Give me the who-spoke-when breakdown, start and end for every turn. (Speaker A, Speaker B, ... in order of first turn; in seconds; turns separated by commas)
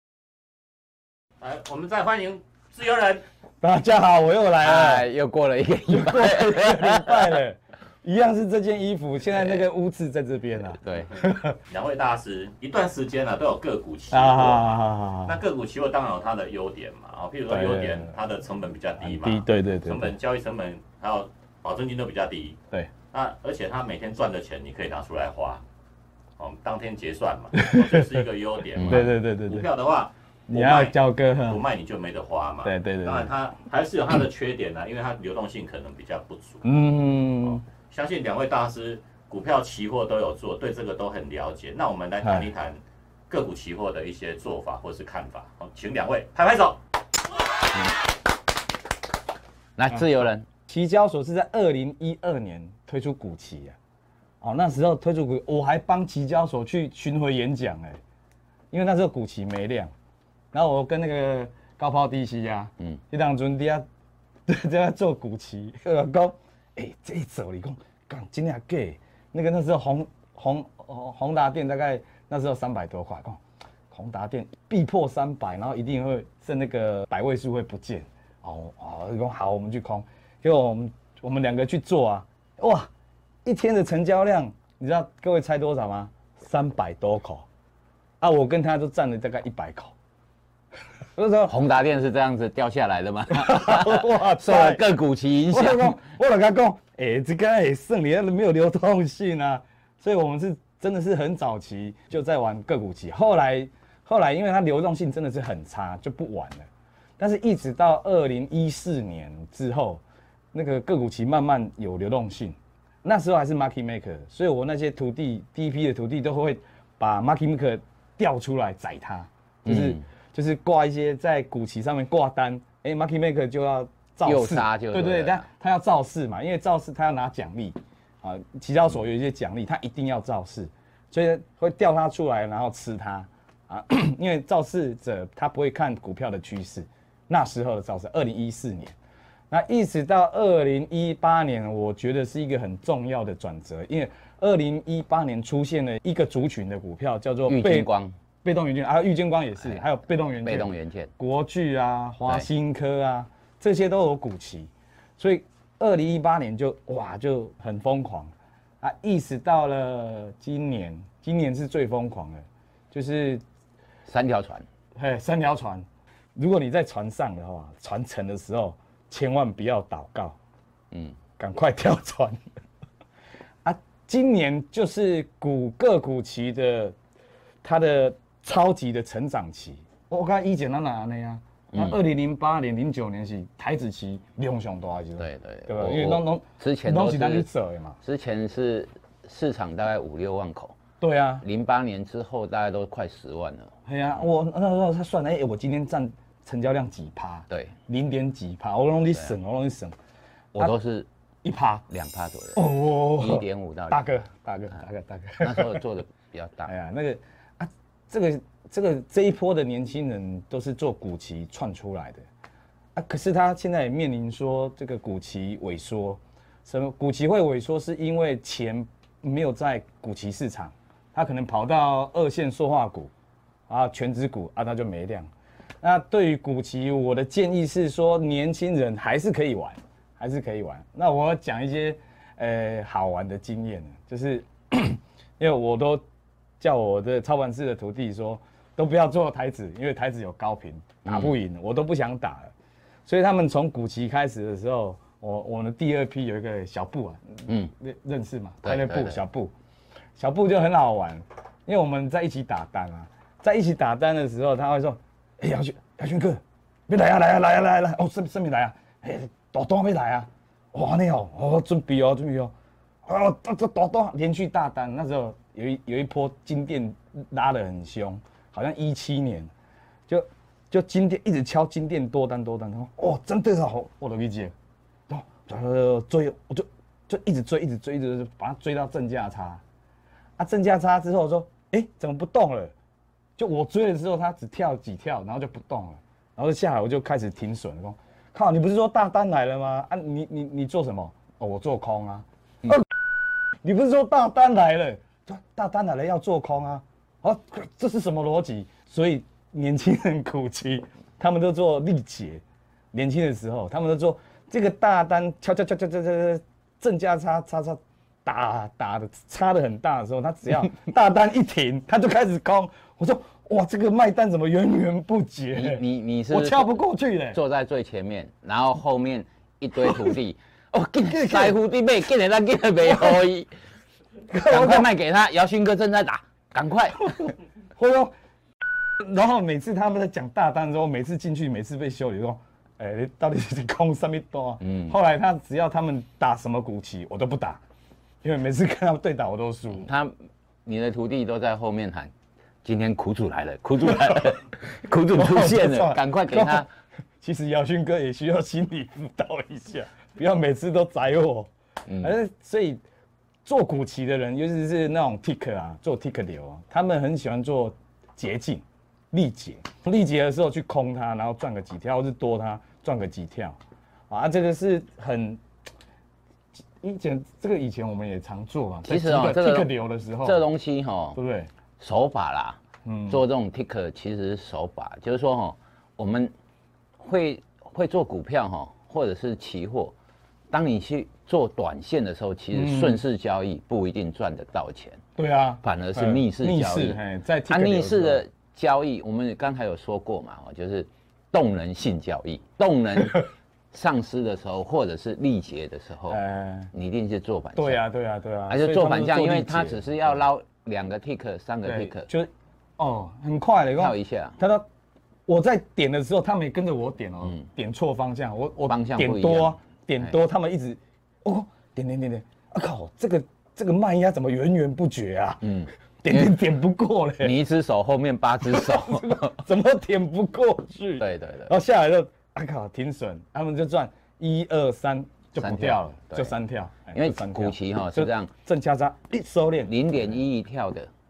Speaker A: 1.4-3.2, Speaker B: 3.6-5.1, Speaker C: 4.6-7.2, Speaker B: 5.9-11.6, Speaker C: 9.3-9.7, Speaker C: 10.8-11.2, Speaker A: 11.7-22.6, Speaker B: 14.1-15.4, Speaker B: 17.5-18.1, Speaker B: 19.0-20.1, Speaker A: 23.1-25.6, Speaker A: 26.4-36.7, Speaker B: 27.5-28.2, Speaker C: 28.8-29.1, Speaker B: 28.8-29.7, Speaker B: 30.5-31.6, Speaker B: 32.6-33.3, Speaker B: 36.6-37.6, Speaker A: 37.4-46.8, Speaker B: 42.2-42.5, Speaker C: 49.8-50.5, Speaker B: 50.7-53.8, Speaker B: 54.4-58.0, Speaker B: 58.7-59.9, Speaker B: 60.5-63.8, Speaker B: 64.5-73.4, Speaker B: 73.9-82.9, Speaker B: 83.4-87.5, Speaker B: 88.2-89.9, Speaker B: 91.2-91.5, Speaker C: 91.5-96.0, Speaker B: 93.3-94.8, Speaker B: 95.5-106.7, Speaker B: 107.2-110.0, Speaker B: 110.5-138.9, Speaker C: 119.6-120.0, Speaker C: 124.2-125.5, Speaker B: 139.5-147.9, Speaker C: 147.5-148.1, Speaker B: 148.4-163.4, Speaker C: 150.4-151.1, Speaker C: 164.1-164.6, Speaker B: 164.9-170.4, Speaker C: 170.9-171.2, Speaker B: 171.4-172.4, Speaker B: 173.6-176.9, Speaker B: 177.6-188.0, Speaker C: 181.7-182.0, Speaker C: 185.2-187.5, Speaker C: 188.0-190.7, Speaker B: 191.0-191.4, Speaker C: 191.4-193.7, Speaker B: 193.8-199.9, Speaker C: 197.5-197.7, Speaker C: 200.5-201.1, Speaker B: 201.4-201.9, Speaker C: 201.9-204.0, Speaker B: 202.5-205.8, Speaker C: 205.4-206.7, Speaker B: 206.7-212.2, Speaker B: 212.9-223.1, Speaker B: 223.7-225.3, Speaker B: 225.8-236.0, Speaker B: 236.6-242.5, Speaker C: 241.0-241.3, Speaker B: 243.1-249.5, Speaker C: 248.6-249.2, Speaker B: 250.2-262.5, Speaker B: 263.0-269.5, Speaker B: 270.1-274.5, Speaker B: 275.1-279.6, Speaker B: 280.4-282.7, Speaker B: 283.4-292.8, Speaker B: 293.6-317.4, Speaker C: 315.5-316.8, Speaker C: 317.3-323.5, Speaker B: 321.1-321.6, Speaker B: 324.3-324.9, Speaker C: 324.4-327.1, Speaker B: 327.8-328.1, Speaker B: 329.0-337.6, Speaker C: 334.6-334.9, Speaker B: 338.2-339.9, Speaker C: 339.8-340.1, Speaker C: 340.6-342.1, Speaker C: 342.6-346.7, Speaker B: 345.1-346.6, Speaker B: 347.2-352.8, Speaker C: 351.9-352.1, Speaker B: 353.4-363.6, Speaker B: 364.1-365.4, Speaker B: 366.8-370.5, Speaker C: 368.8-371.2, Speaker B: 371.1-371.5, Speaker C: 371.8-376.3, Speaker B: 372.8-373.2, Speaker C: 377.0-379.9, Speaker C: 380.5-385.0, Speaker B: 382.5-383.0, Speaker B: 385.2-388.2, Speaker C: 385.6-396.2, Speaker B: 396.1-396.7, Speaker C: 396.7-397.8, Speaker B: 397.6-400.2, Speaker C: 398.5-402.1, Speaker B: 401.6-404.6, Speaker C: 403.8-404.4, Speaker B: 405.3-417.4, Speaker C: 408.7-410.2, Speaker C: 415.4-416.4, Speaker C: 417.2-419.4, Speaker B: 418.4-430.1, Speaker C: 421.0-421.5, Speaker C: 425.4-426.3, Speaker C: 426.9-428.3, Speaker C: 429.6-430.9